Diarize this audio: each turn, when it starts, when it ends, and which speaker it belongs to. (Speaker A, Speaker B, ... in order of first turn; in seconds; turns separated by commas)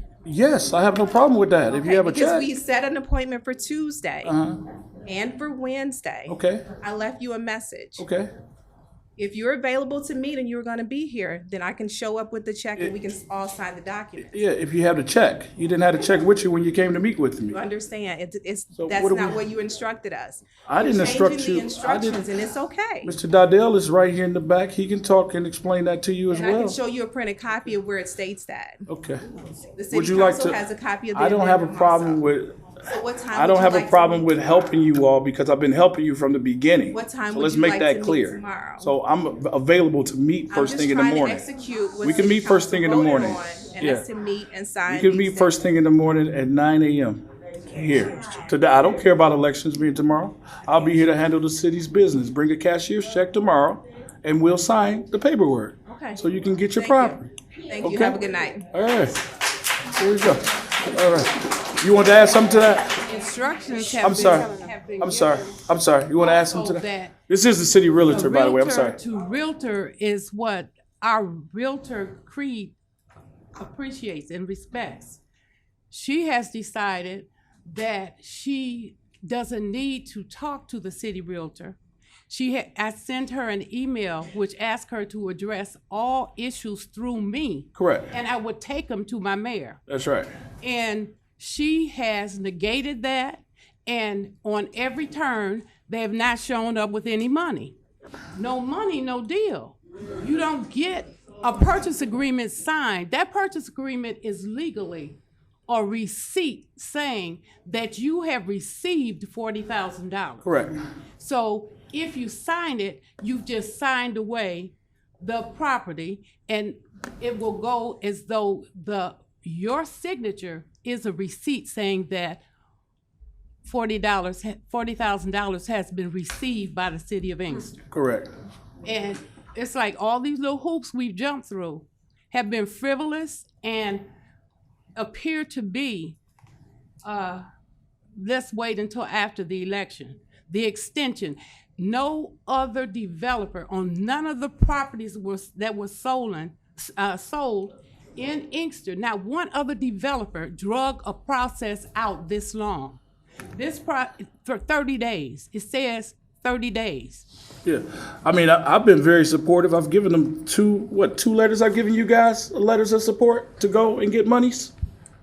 Speaker A: 0.2-2.5, Speaker B: 1.7-4.3, Speaker A: 4.2-4.6, Speaker B: 5.1-8.0, Speaker A: 6.3-6.7, Speaker A: 8.0-8.3, Speaker B: 9.2-14.4, Speaker A: 14.3-17.6, Speaker B: 17.5-23.2, Speaker A: 18.8-19.4, Speaker A: 20.7-22.2, Speaker A: 23.1-26.8, Speaker B: 26.3-28.9, Speaker A: 28.9-29.2, Speaker B: 29.8-32.2, Speaker A: 29.9-30.6, Speaker A: 31.1-32.6, Speaker B: 32.9-34.6, Speaker A: 33.3-41.5, Speaker B: 36.9-38.9, Speaker B: 40.5-45.6, Speaker A: 42.0-44.0, Speaker A: 44.9-57.3, Speaker B: 55.9-56.2, Speaker B: 56.8-58.7, Speaker A: 57.8-58.2, Speaker A: 58.7-59.2, Speaker A: 60.0-63.0, Speaker C: 63.0-65.6, Speaker B: 63.2-65.3, Speaker A: 64.0-69.0, Speaker C: 66.2-67.2, Speaker C: 68.1-72.8, Speaker C: 73.6-75.2, Speaker C: 75.9-81.8, Speaker C: 82.3-89.8, Speaker A: 87.8-88.1, Speaker A: 89.9-90.3, Speaker C: 90.6-97.8, Speaker C: 98.3-110.5, Speaker A: 110.4-110.8, Speaker C: 111.2-122.4, Speaker C: 123.6-127.8, Speaker A: 127.9-128.3, Speaker C: 128.8-134.1, Speaker C: 135.0-136.2, Speaker C: 137.0-137.5, Speaker C: 138.2-153.0, Speaker C: 153.5-157.3, Speaker A: 157.7-164.7